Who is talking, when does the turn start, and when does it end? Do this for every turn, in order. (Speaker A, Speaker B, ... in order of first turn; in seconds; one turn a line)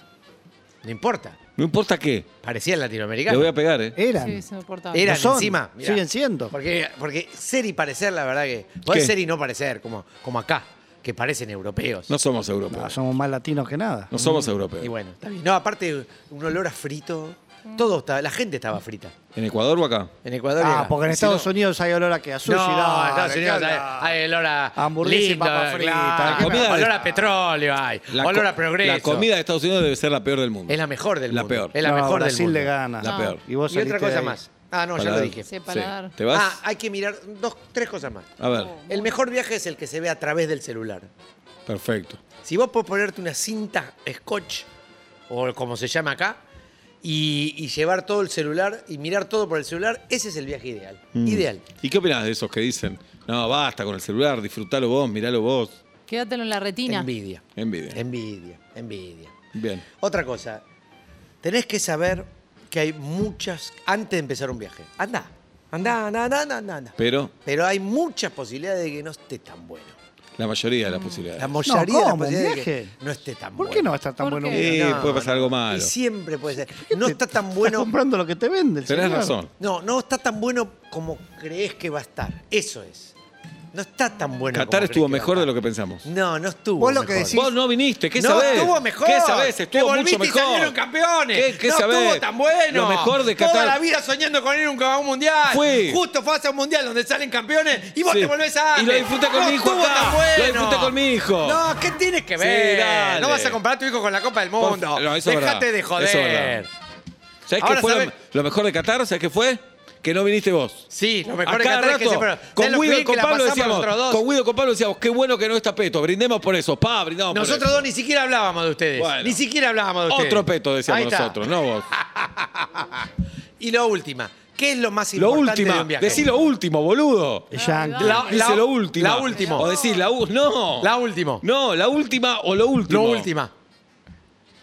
Speaker A: 0.8-1.4
Speaker B: 1.6-2.3
Speaker A: 2.4-3.5
Speaker B: 3.3-4.0
Speaker C: 4.0-4.5
Speaker D: 4.2-5.1
Speaker A: 4.9-12.1
Speaker C: 5.0-6.5
Speaker B: 8.9-9.1
Speaker B: 12.1-13.0
Speaker C: 12.7-14.1
Speaker B: 14.1-14.9
Speaker A: 14.2-19.1
Speaker B: 19.4-20.1
Speaker A: 20.2-21.5
Speaker C: 20.6-24.2
Speaker A: 22.4-29.3
Speaker C: 24.8-27.0
Speaker B: 26.2-27.3
Speaker B: 28.1-31.7
Speaker A: 30.7-32.7
Speaker C: 31.8-34.4
Speaker D: 33.0-33.4
Speaker B: 33.0-33.4
Speaker A: 33.7-35.5
Speaker B: 35.0-36.6
Speaker D: 35.5-36.1
Speaker A: 36.3-41.1
Speaker B: 38.4-38.8
Speaker D: 38.5-39.1
Speaker B: 41.7-42.2
Speaker A: 42.4-44.7
Speaker A: 45.3-46.4
Speaker A: 47.0-51.6
Speaker B: 51.1-55.8
Speaker D: 56.1-57.1
Speaker A: 56.9-59.3
Speaker B: 57.6-58.0
Speaker B: 59.5-59.9
Speaker A: 59.9-60.6
Speaker A: 61.4-70.0
Speaker B: 67.0-67.3
Speaker B: 70.4-71.6
Speaker D: 70.9-71.3
Speaker A: 71.4-73.9
Speaker C: 71.7-72.9
Speaker C: 73.6-75.0
Speaker D: 74.2-74.7
Speaker B: 74.5-75.9
Speaker A: 74.5-77.9
Speaker C: 76.7-79.4
Speaker B: 78.9-79.5
Speaker A: 79.6-83.2
Speaker A: 83.7-85.5
Speaker B: 84.5-86.1
Speaker A: 86.0-87.5
Speaker C: 86.8-87.5
Speaker B: 87.3-90.8
Speaker A: 88.2-106.7
Speaker D: 88.3-88.7
Speaker B: 91.3-93.8
Speaker B: 95.5-96.0
Speaker B: 98.0-101.6
Speaker B: 102.4-103.6
Speaker B: 104.6-106.6
Speaker B: 107.5-110.9
Speaker A: 107.6-108.1
Speaker A: 110.9-114.2
Speaker B: 111.4-117.9
Speaker A: 117.3-123.1
Speaker B: 119.0-119.4
Speaker B: 120.1-121.9
Speaker A: 123.6-126.3
Speaker B: 125.2-127.5
Speaker C: 127.5-128.3
Speaker D: 127.5-128.7
Speaker A: 128.0-129.8
Speaker B: 128.1-133.3
Speaker D: 129.3-130.0
Speaker A: 130.8-131.4
Speaker A: 132.9-133.5